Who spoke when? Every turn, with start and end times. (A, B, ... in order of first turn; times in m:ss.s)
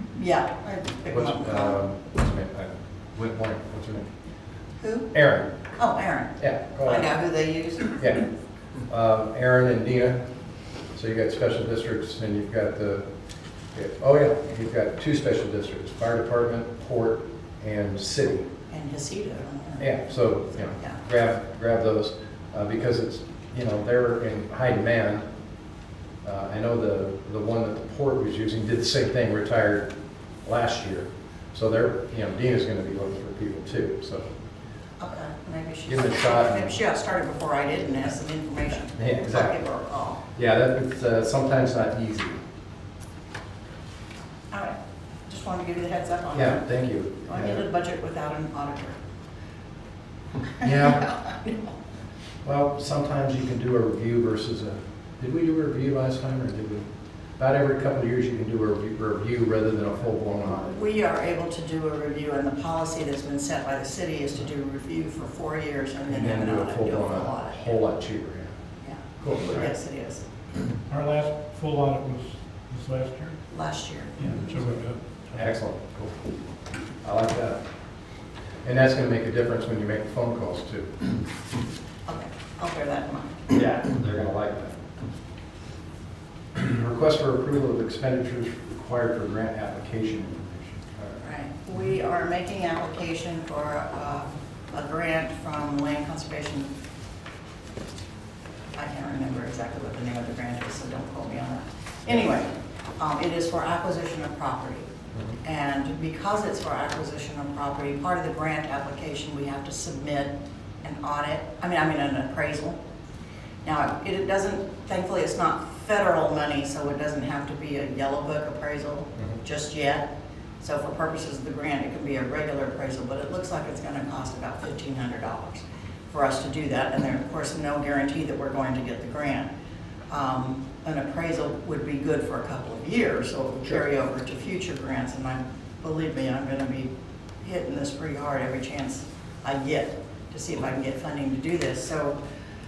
0:00.2-0:01.8 A
0:01.1-0:04.1 B
0:04.8-0:05.1 A
0:05.1-0:05.5 B
0:05.8-0:08.0 A
0:06.4-0:07.1 B
0:08.0-0:08.3 B
0:08.9-0:10.2 B
0:10.9-0:13.0 B
0:13.7-0:18.5 B
0:18.7-0:19.9 A
0:19.8-0:25.2 B
0:26.2-0:29.9 B
0:30.4-0:34.3 B
0:35.0-0:40.2 A
0:35.9-0:36.8 B
0:39.0-0:39.6 B
0:40.4-0:42.4 B
0:44.5-0:46.6 A
0:46.3-0:47.6 B
0:47.2-0:49.0 A
0:50.6-0:51.8 A
0:50.6-0:51.0 B
0:52.4-0:56.9 B
0:57.4-1:00.8 B
1:00.6-1:07.8 A
1:06.1-1:08.6 B
1:08.8-1:10.2 A
1:09.2-1:09.7 B
1:10.9-1:13.4 C
1:13.5-1:14.3 A
1:14.2-1:15.5 C
1:15.3-1:16.2 B
1:17.0-1:17.6 B
1:18.6-1:21.0 B
1:22.0-1:23.5 A
1:23.5-1:24.8 B
1:26.6-1:31.2 B
1:31.2-1:36.7 A
1:38.7-1:44.9 A
1:45.4-1:52.8 A
1:53.6-2:00.1 A
2:00.6-2:09.5 A
2:10.1-2:22.2 A